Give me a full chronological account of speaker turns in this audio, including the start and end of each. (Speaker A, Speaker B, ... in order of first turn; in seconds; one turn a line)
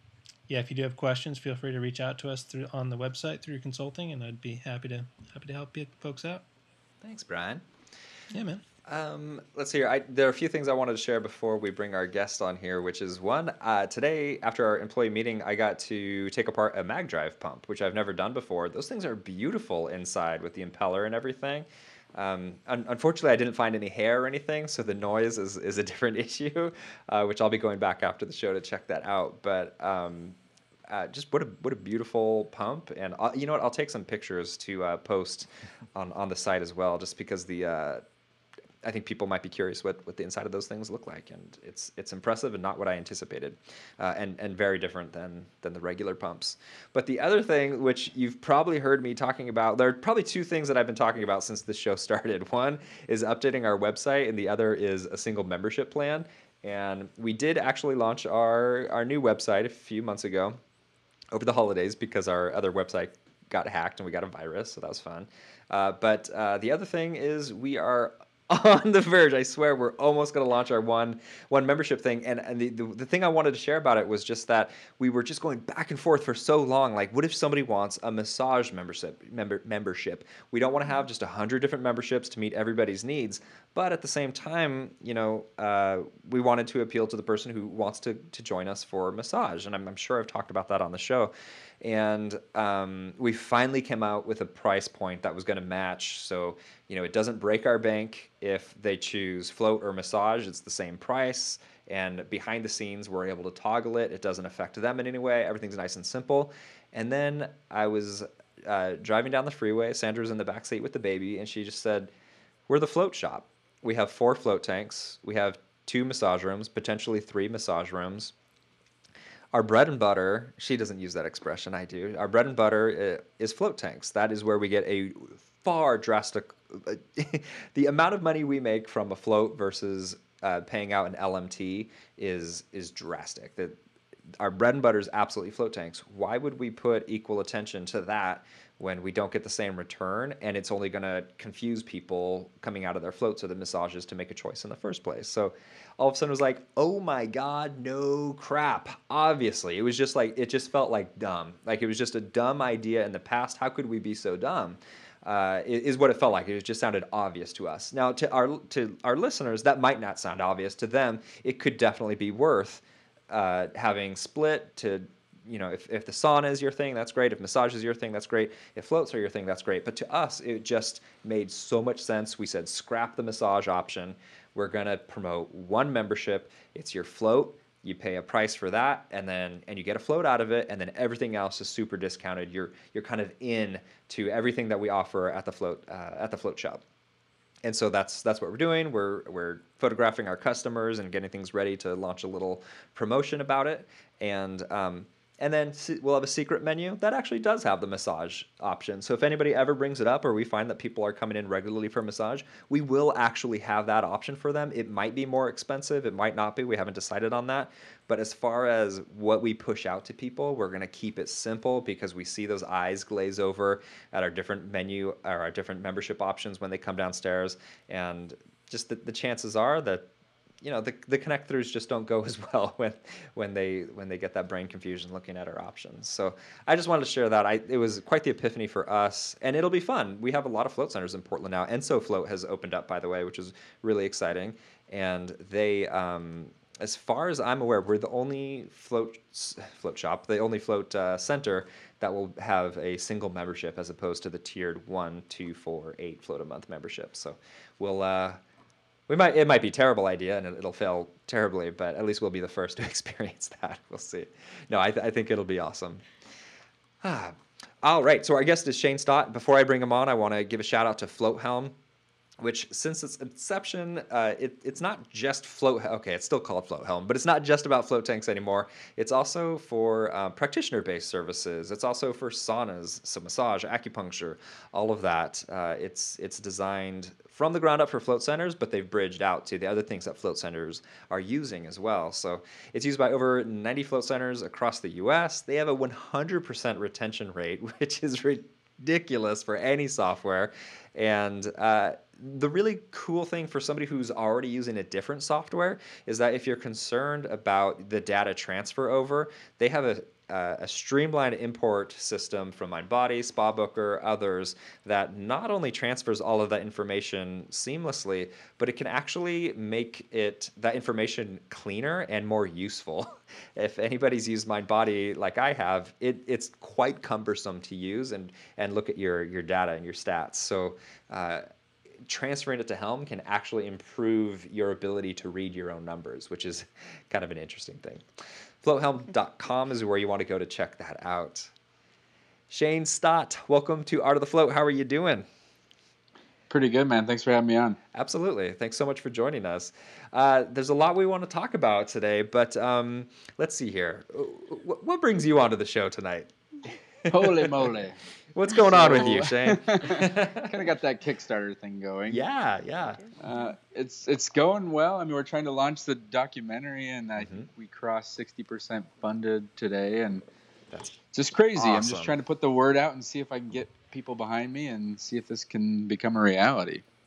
Speaker A: 0.5-6.4
Speaker B: 7.0-7.6
Speaker A: 8.3-8.6
Speaker B: 8.8-30.4
Speaker B: 30.9-38.0
Speaker B: 38.8-60.6
Speaker B: 61.3-112.1
Speaker B: 112.7-118.3
Speaker B: 119.5-133.8
Speaker B: 134.4-186.8
Speaker B: 187.6-220.1
Speaker B: 220.6-248.4
Speaker B: 249.1-256.0
Speaker B: 257.0-261.8
Speaker B: 262.4-321.4
Speaker B: 322.1-328.1
Speaker B: 328.6-331.5
Speaker B: 332.5-335.3
Speaker C: 336.5-337.8
Speaker B: 337.9-347.8
Speaker C: 347.1-348.0
Speaker B: 348.3-350.5
Speaker C: 348.6-352.2
Speaker B: 352.1-353.1
Speaker C: 353.2-360.2
Speaker B: 357.2-357.5
Speaker B: 360.7-361.0
Speaker C: 361.1-366.8
Speaker B: 361.5-362.1